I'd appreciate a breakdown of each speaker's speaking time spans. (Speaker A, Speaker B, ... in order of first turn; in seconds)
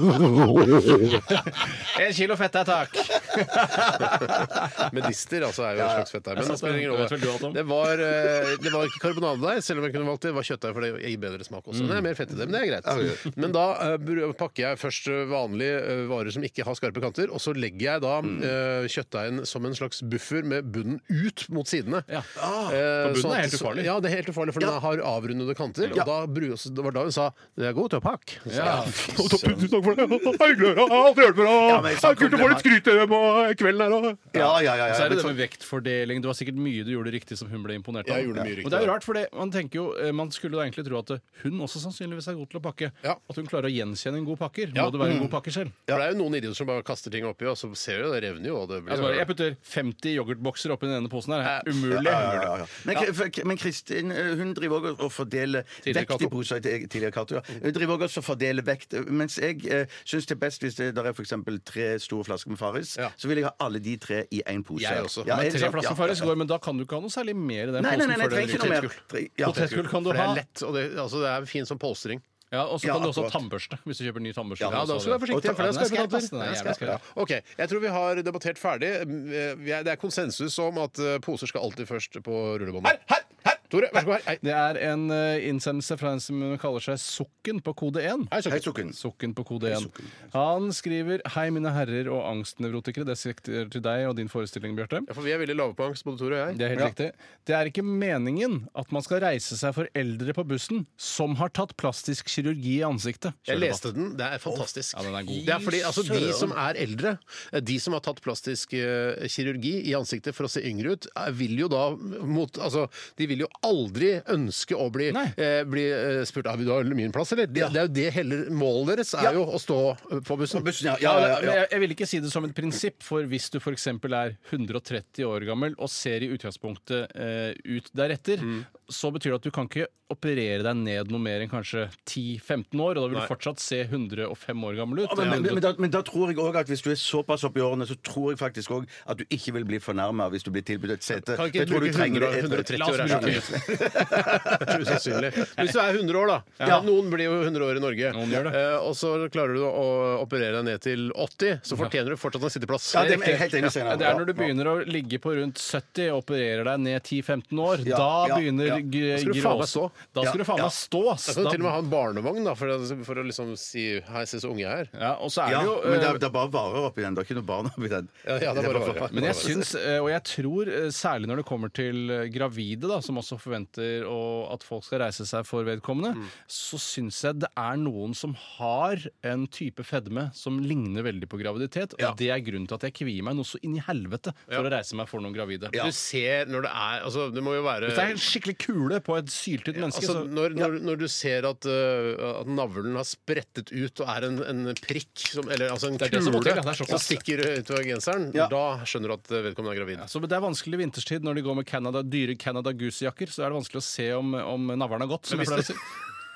Speaker A: 1.3-4.6, 6.4-7.6, 11.7-12.1, 23.0-23.9, 28.5-30.2, 34.3-45.8, 48.9-52.5, 65.2-68.8, 69.4-70.4, 72.5-77.0, 84.4-88.3, 88.9-95.1, 96.5-103.8, 104.9-106.1, 115.1-115.4, 121.0-135.7, 142.7-143.9, 146.6-146.8, 148.1-148.6, 153.6-161.7, 164.9-166.2, 169.1-185.8, 187.9-190.3, 196.0-197.2, 200.0-205.8
Speaker B: 4.8-22.1, 22.7-34.3, 38.0-39.0, 45.9-49.3, 51.4-53.1, 55.8-56.3, 64.8-65.4, 68.2-72.2, 74.7-84.4, 88.3-88.7, 95.1-96.9, 103.5-120.7, 128.4-128.7, 141.1-153.7, 159.1-159.9, 161.3-164.9, 168.2-169.5, 185.7-188.2, 189.8-200.1, 205.3-205.8
Speaker C: 5.8-6.1, 12.8-13.3, 18.2-18.5, 22.4-22.8, 28.6-29.7, 31.6-32.7, 34.3-35.4, 45.0-45.4, 51.9-66.3, 67.8-69.8, 72.8-73.4, 74.6-75.4, 88.5-89.0, 89.7-90.1, 105.5-106.5, 120.5-121.6, 135.0-145.0, 152.9-154.5, 157.8-158.8, 160.2-160.7, 165.5-169.7